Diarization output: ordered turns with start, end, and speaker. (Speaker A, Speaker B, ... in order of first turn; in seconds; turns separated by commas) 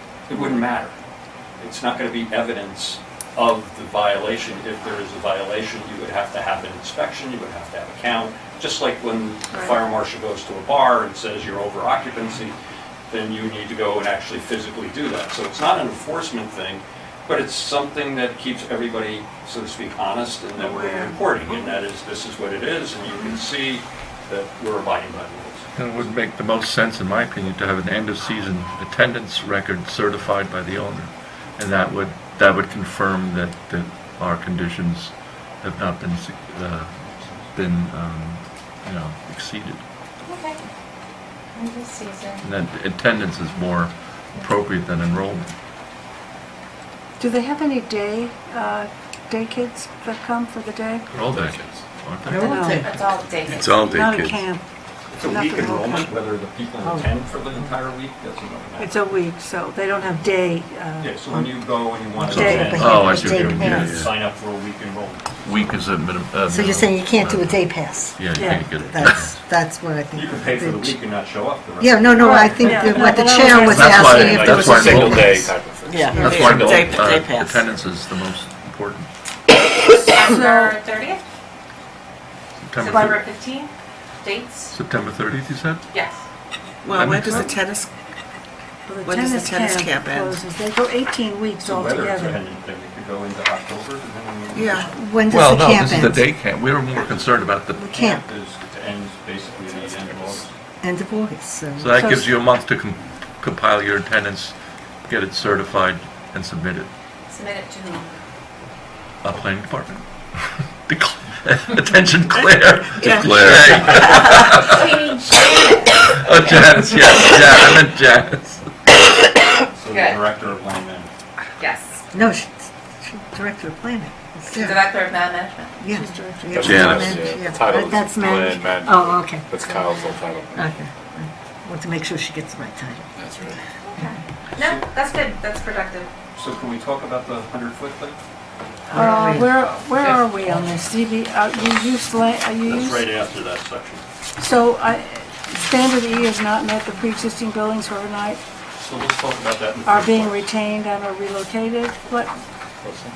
Speaker A: 0.3-0.9, Speaker A: 1.6-12.6, Speaker B: 9.5-9.8, Speaker A: 13.1-25.7, Speaker B: 23.1-23.4, Speaker C: 25.8-39.8, Speaker D: 40.2-40.6, Speaker D: 41.5-42.5, Speaker C: 42.4-45.5, Speaker B: 47.2-51.1, Speaker C: 51.1-52.6, Speaker E: 51.4-51.6, Speaker F: 52.3-53.1, Speaker B: 52.3-53.0, Speaker D: 52.6-53.7, Speaker C: 53.5-53.8, Speaker E: 53.6-54.1, Speaker B: 53.8-54.7, Speaker G: 54.1-54.4, Speaker A: 55.1-59.1, Speaker B: 55.3-56.1, Speaker B: 58.8-63.2, Speaker A: 61.0-65.7, Speaker F: 62.2-64.0, Speaker C: 62.4-64.1, Speaker C: 65.4-69.4, Speaker F: 66.5-71.0, Speaker B: 68.3-68.7, Speaker A: 70.1-73.3, Speaker F: 71.8-75.4, Speaker B: 72.2-74.4, Speaker C: 73.6-75.5, Speaker E: 74.2-77.1, Speaker G: 75.8-77.7, Speaker F: 76.0-76.3, Speaker C: 76.2-79.1, Speaker D: 79.8-81.2, Speaker B: 80.3-80.8, Speaker C: 82.7-83.2, Speaker D: 82.8-84.7, Speaker C: 84.7-85.8, Speaker D: 85.9-86.2, Speaker G: 86.8-87.9, Speaker C: 86.9-87.5, Speaker B: 88.9-92.4, Speaker G: 89.0-90.4, Speaker A: 91.6-95.0, Speaker G: 94.5-94.9, Speaker F: 94.9-96.3, Speaker C: 95.3-97.9, Speaker A: 96.9-100.5, Speaker F: 97.7-98.2, Speaker F: 100.8-102.3, Speaker C: 101.8-106.9, Speaker D: 107.3-108.1, Speaker C: 109.2-110.1, Speaker C: 110.9-115.2, Speaker G: 113.0-113.6, Speaker E: 113.2-113.9, Speaker D: 114.0-116.1, Speaker C: 116.0-118.7, Speaker A: 119.7-121.1, Speaker D: 119.9-120.2, Speaker D: 121.6-122.0, Speaker F: 122.1-125.0, Speaker D: 124.5-125.8, Speaker F: 125.8-129.5, Speaker B: 125.9-127.2, Speaker E: 126.5-130.8, Speaker C: 126.7-127.1, Speaker F: 130.6-134.1, Speaker E: 133.2-133.6, Speaker D: 133.8-136.1, Speaker A: 134.6-134.9, Speaker A: 136.3-138.2, Speaker B: 138.9-143.1, Speaker F: 138.9-139.5, Speaker A: 142.7-144.0, Speaker B: 144.4-148.4, Speaker A: 148.8-150.5, Speaker B: 149.8-152.3